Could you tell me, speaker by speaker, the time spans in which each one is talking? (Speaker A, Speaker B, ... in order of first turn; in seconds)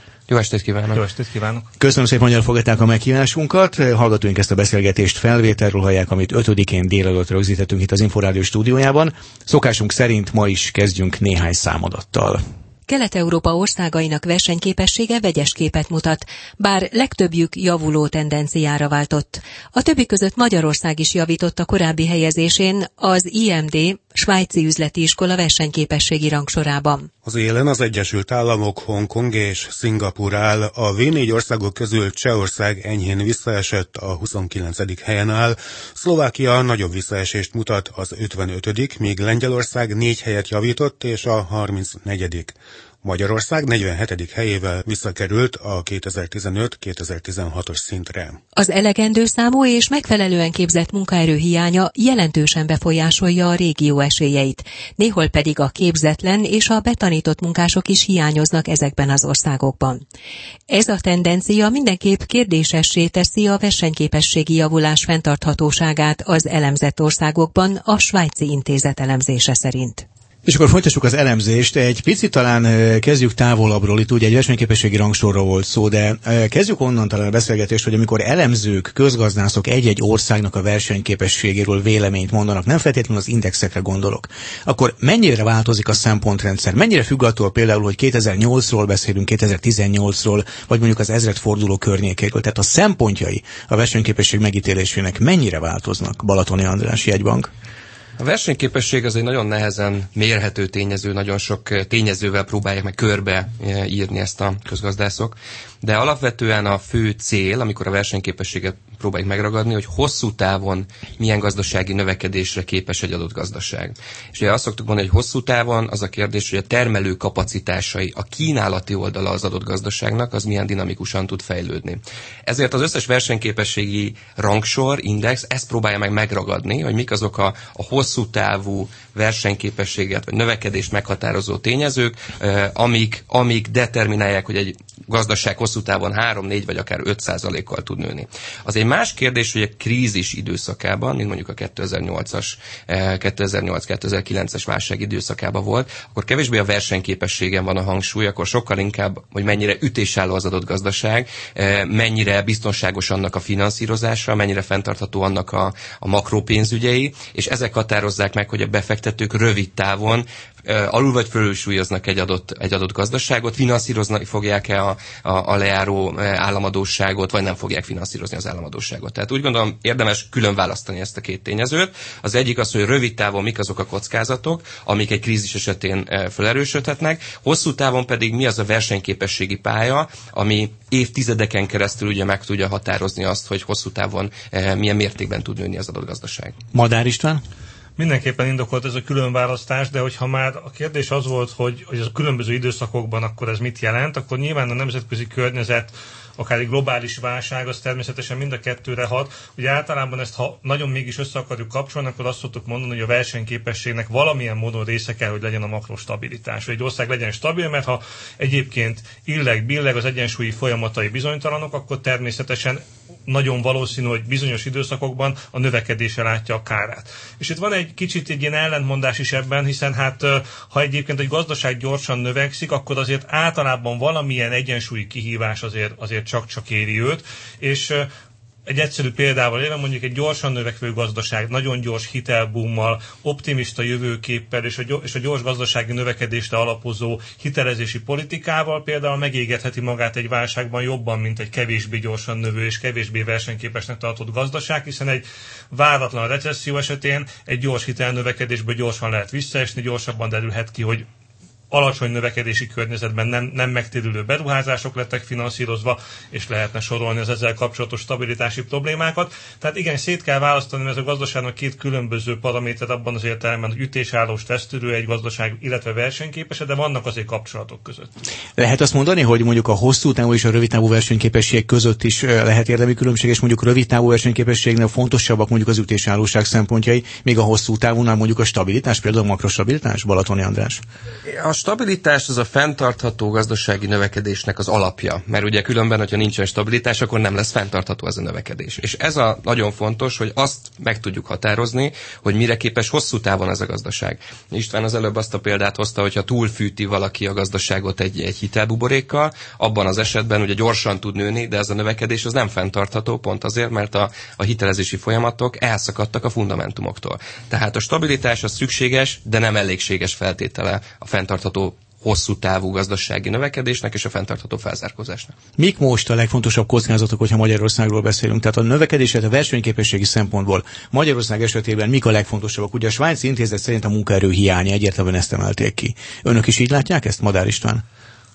Speaker A: 0.3-1.0, 98.2-186.6, 281.2-315.3
Speaker B: 0.9-1.7, 188.0-228.1, 228.7-251.1, 251.7-268.1
Speaker C: 1.8-12.4, 70.5-97.5, 186.7-187.4, 268.6-280.8, 315.6-327.8
Speaker D: 12.9-27.1, 48.6-60.0, 60.7-70.0
Speaker E: 27.2-48.4